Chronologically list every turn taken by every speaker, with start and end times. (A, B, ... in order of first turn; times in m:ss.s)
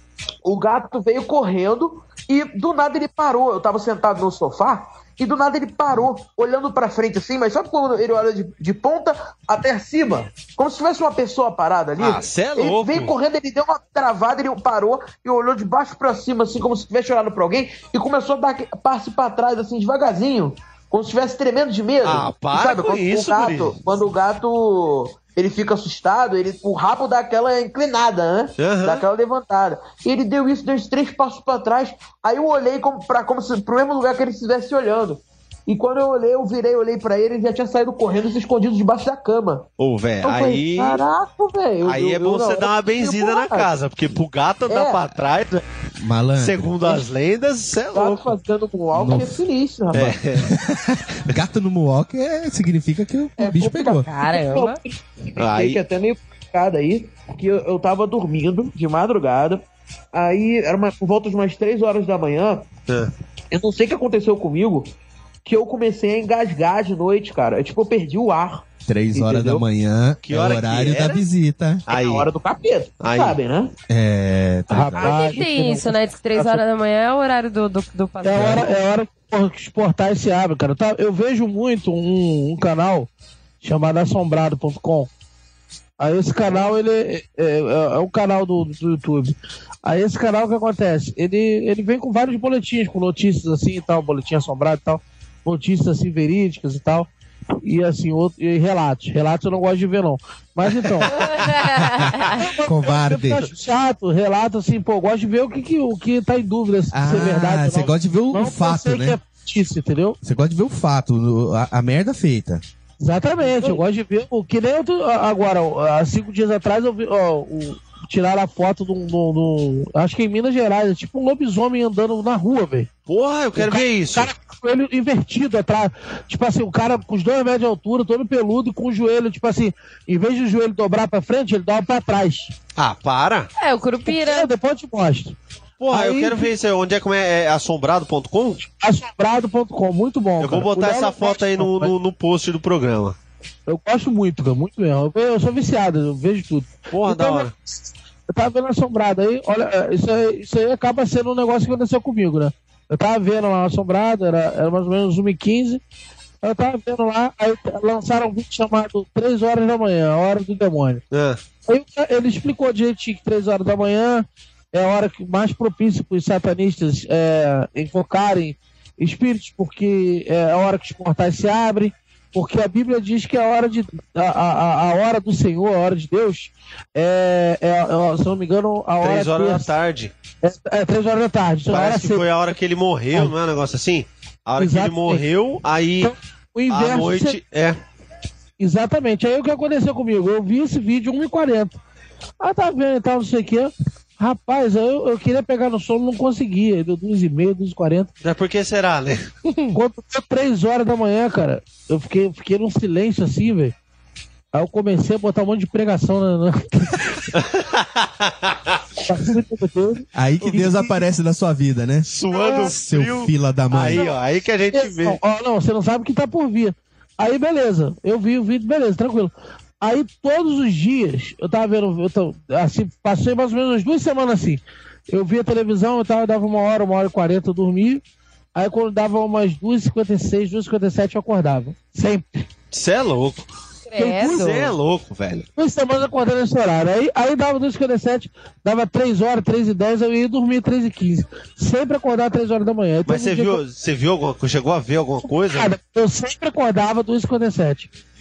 0:00.4-0:39.7 A
0:12.0-0:13.1 B
0:22.0-0:23.8 B
0:28.6-0:29.0 B
0:39.8-0:41.0 B
0:40.2-0:43.7 A
0:41.8-0:45.6 B
0:44.7-0:45.0 A
0:46.0-0:46.7 C
0:46.4-0:48.4 B
0:47.9-0:50.2 A
0:48.9-0:49.4 C
0:49.9-0:50.6 B
0:50.4-0:54.1 C
0:53.4-1:02.7 A
0:53.9-0:54.8 D
0:55.4-0:55.8 B
1:03.5-1:04.9 A
1:05.4-1:09.6 A
1:08.9-1:11.8 C
1:10.2-1:11.3 B
1:11.9-1:12.3 B
1:11.9-1:13.7 A
1:13.0-1:13.4 B
1:13.9-1:15.1 C
1:14.7-1:16.6 E
1:15.0-1:15.4 A
1:15.0-1:18.7 D
1:18.2-1:23.1 E
1:18.4-1:18.7 C
1:23.6-1:25.1 E
1:26.0-1:37.1 E
1:37.6-1:41.3 E
1:40.7-1:41.5 B
1:41.1-1:42.4 D
1:41.7-1:43.5 C
1:42.4-1:50.2 E
1:46.9-1:49.2 C
1:50.2-1:52.6 C
1:53.0-2:02.9 E
2:03.1-2:04.3 B
2:03.6-2:12.5 E
2:12.8-2:13.5 B
2:13.6-2:14.5 D
2:14.1-2:15.4 E
2:15.8-2:18.6 B
2:15.9-2:16.5 E
2:18.6-2:21.9 E
2:20.4-2:23.2 B
2:23.7-2:27.5 E
2:26.9-2:27.5 B
2:28.3-2:35.8 E
2:36.4-2:41.0 E
2:41.1-2:41.4 B
2:41.7-2:59.7 E
2:59.0-3:00.1 B
3:00.4-3:02.3 E
3:01.7-3:06.1 B
3:04.6-3:05.2 E
3:06.0-3:07.4 E
3:06.7-3:07.8 B
3:08.6-3:11.8 E
3:12.4-3:18.1 E
3:18.2-3:19.3 B
3:19.7-3:23.8 E
3:24.5-3:27.2 E
3:27.3-3:28.8 B
3:29.1-3:30.1 E
3:30.2-3:34.1 C
3:30.4-3:31.0 B
3:32.0-3:35.2 B
3:32.3-3:32.6 D
3:34.7-3:48.0 E
3:48.6-3:52.5 E
3:52.7-3:53.4 B
3:53.9-3:54.7 D
3:54.0-3:54.6 E
3:54.3-3:55.5 B
3:55.6-4:03.6 E
4:03.1-4:05.8 B
4:05.4-4:07.9 E